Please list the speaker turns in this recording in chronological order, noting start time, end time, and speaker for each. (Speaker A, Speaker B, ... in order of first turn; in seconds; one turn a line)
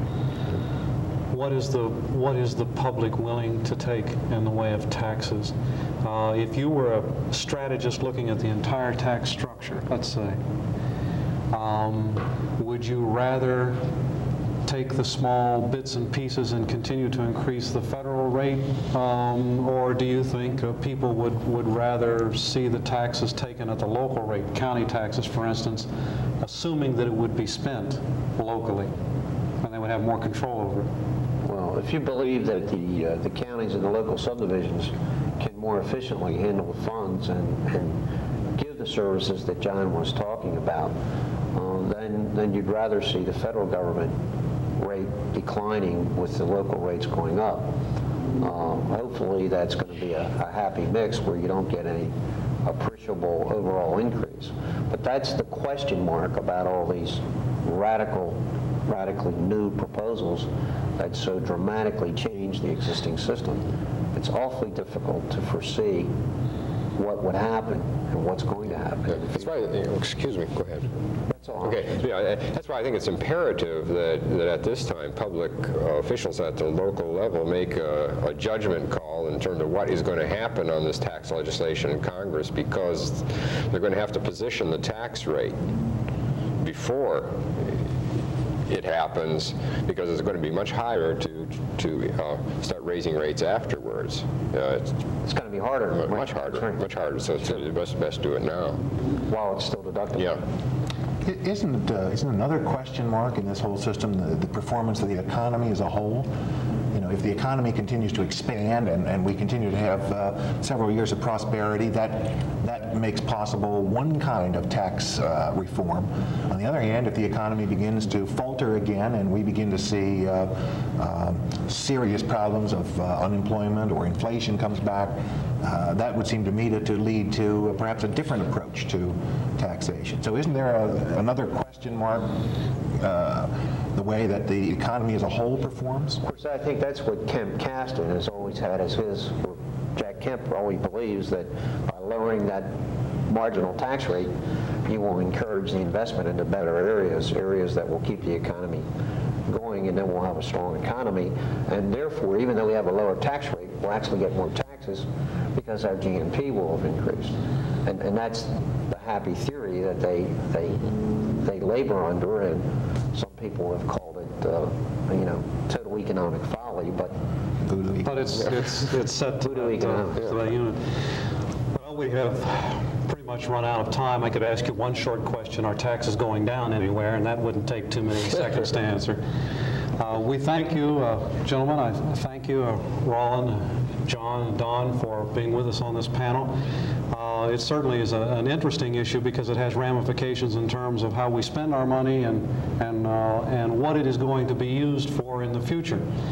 Speaker A: 1.3-10.4
Speaker A: 11.5-13.9
Speaker A: 14.6-25.9
Speaker A: 26.4-28.9
Speaker A: 29.6-30.9
Speaker B: 31.4-38.0
Speaker B: 38.5-40.9
Speaker B: 41.5-44.1
Speaker B: 44.8-47.7
Speaker B: 48.4-52.1
Speaker B: 52.6-66.1
Speaker B: 67.0-69.5
Speaker C: 69.2-70.9
Speaker B: 71.3-71.9
Speaker C: 71.6-85.6
Speaker C: 86.6-87.9
Speaker C: 88.7-95.0
Speaker B: 95.2-96.8
Speaker C: 96.0-98.8
Speaker B: 99.3-100.5
Speaker D: 101.2-106.3
Speaker D: 106.9-136.2
Speaker B: 136.2-142.7
Speaker B: 143.3-144.3
Speaker B: 144.8-148.8
Speaker B: 149.5-167.2
Speaker D: 167.6-168.3
Speaker A: 168.0-171.1
Speaker B: 169.4-170.3
Speaker A: 171.7-179.2
Speaker A: 180.0-196.1